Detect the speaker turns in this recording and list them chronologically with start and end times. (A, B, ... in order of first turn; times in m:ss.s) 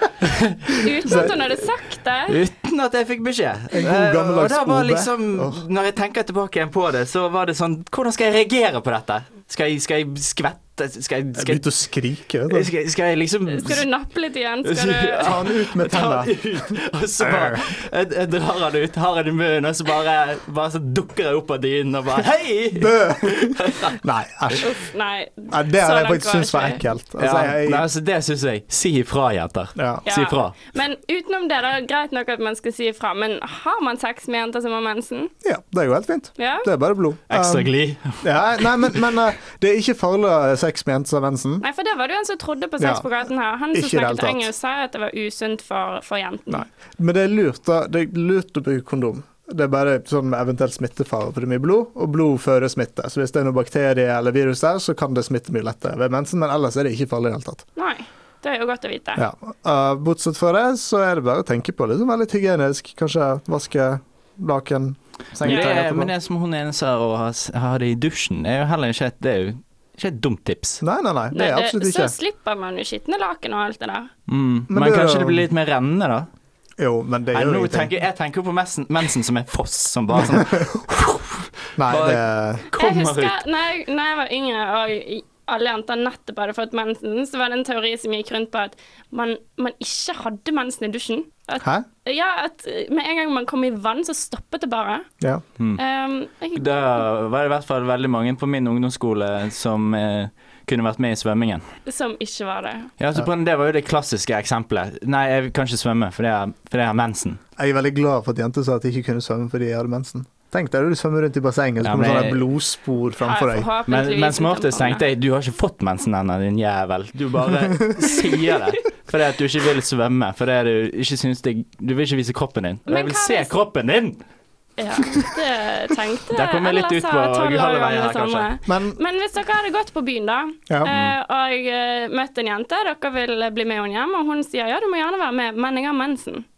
0:00.2-0:00.8 A
0:00.8-0:02.4 B
0:01.0-0:01.3 C
0:02.3-0:11.6 A
0:03.7-0:05.6 C
0:11.4-0:12.7 C
0:12.5-0:13.8 A
0:13.5-0:15.3 B
0:14.6-0:24.0 A
0:15.2-0:16.4 C
0:17.2-0:17.6 C
0:22.8-0:24.7 C
0:24.6-0:26.8 B
0:25.5-0:27.9 C
0:27.2-0:30.6 A
0:29.8-0:30.0 C
0:30.1-0:35.3 B
0:35.4-0:41.6 C
0:36.4-0:36.7 B
0:37.3-0:39.0 A
0:41.6-0:46.6 B
0:42.8-0:43.1 C
0:43.7-0:44.5 C
0:46.5-0:57.6 C
0:57.8-0:59.2 B
0:59.2-1:06.1 C
1:05.4-1:10.8 A
1:05.4-1:05.7 B
1:10.8-1:12.1 C
1:11.3-1:14.1 B
1:14.3-1:16.3 A
1:14.7-1:15.5 C
1:16.8-1:17.9 C
1:17.3-1:23.4 A
1:20.2-1:20.6 C
1:21.8-1:22.7 C
1:22.7-1:35.1 B
1:31.6-1:31.9 C
1:35.8-1:36.7 B
1:36.6-1:41.7 A
1:41.9-1:42.9 B
1:43.0-1:47.4 A
1:47.6-1:53.7 C
1:51.8-1:52.4 A
1:53.2-1:55.0 B
1:53.9-2:04.2 A
2:02.9-2:03.6 B
2:04.8-2:16.4 B
2:06.3-2:08.5 A
2:08.7-2:09.0 C
2:10.9-2:11.2 A